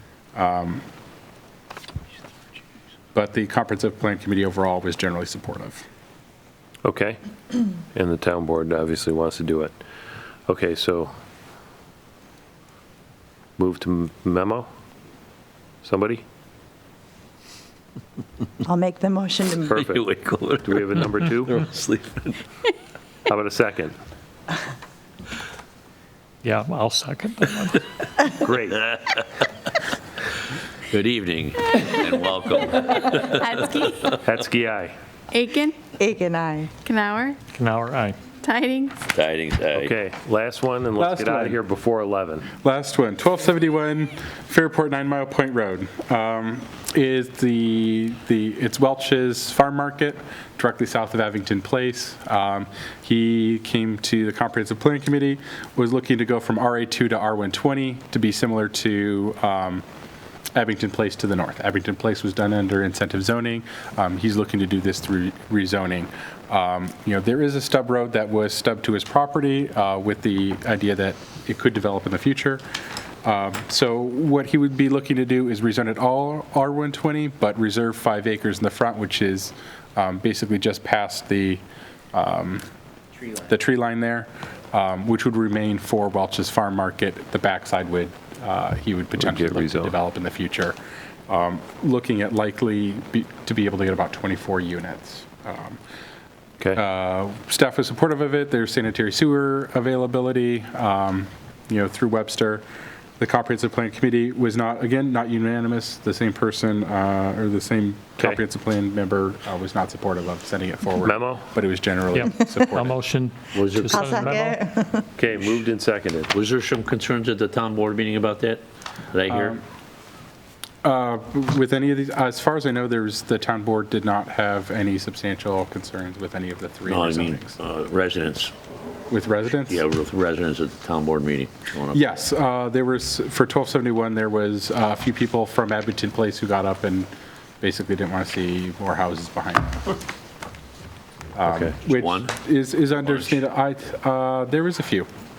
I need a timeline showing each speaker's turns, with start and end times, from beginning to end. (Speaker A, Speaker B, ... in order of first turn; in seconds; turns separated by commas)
Speaker A: 0.3-0.8, Speaker A: 3.1-5.8, Speaker B: 6.8-7.2, Speaker B: 7.9-9.7, Speaker B: 10.5-11.1, Speaker B: 13.6-14.7, Speaker B: 15.8-16.2, Speaker C: 18.6-19.7, Speaker B: 19.7-20.0, Speaker D: 19.7-22.4, Speaker B: 20.6-21.6, Speaker B: 23.3-23.9, Speaker E: 26.4-27.9, Speaker B: 28.3-29.0, Speaker D: 30.9-33.5, Speaker F: 33.2-34.1, Speaker B: 34.2-34.9, Speaker F: 35.3-35.8, Speaker C: 36.0-36.7, Speaker F: 36.8-37.4, Speaker E: 37.5-38.2, Speaker F: 38.3-39.0, Speaker D: 39.1-39.9, Speaker B: 39.7-42.5, Speaker A: 41.0-41.6, Speaker A: 42.6-59.8, Speaker A: 60.5-72.6, Speaker A: 73.2-81.6, Speaker A: 82.1-82.6, Speaker A: 83.3-90.8, Speaker B: 89.2-89.9, Speaker A: 91.3-95.8, Speaker A: 96.7-102.6, Speaker A: 103.2-113.0, Speaker B: 111.0-111.4, Speaker E: 112.1-114.6, Speaker D: 113.5-114.2, Speaker C: 113.9-115.0, Speaker B: 115.2-116.3, Speaker D: 116.3-119.6, Speaker A: 119.3-119.6, Speaker A: 120.8-127.6, Speaker D: 126.9-128.5, Speaker A: 129.1-129.8, Speaker D: 129.7-132.1, Speaker A: 131.9-137.1, Speaker A: 137.6-139.9, Speaker A: 141.3-145.1, Speaker B: 141.5-141.7, Speaker D: 141.8-142.3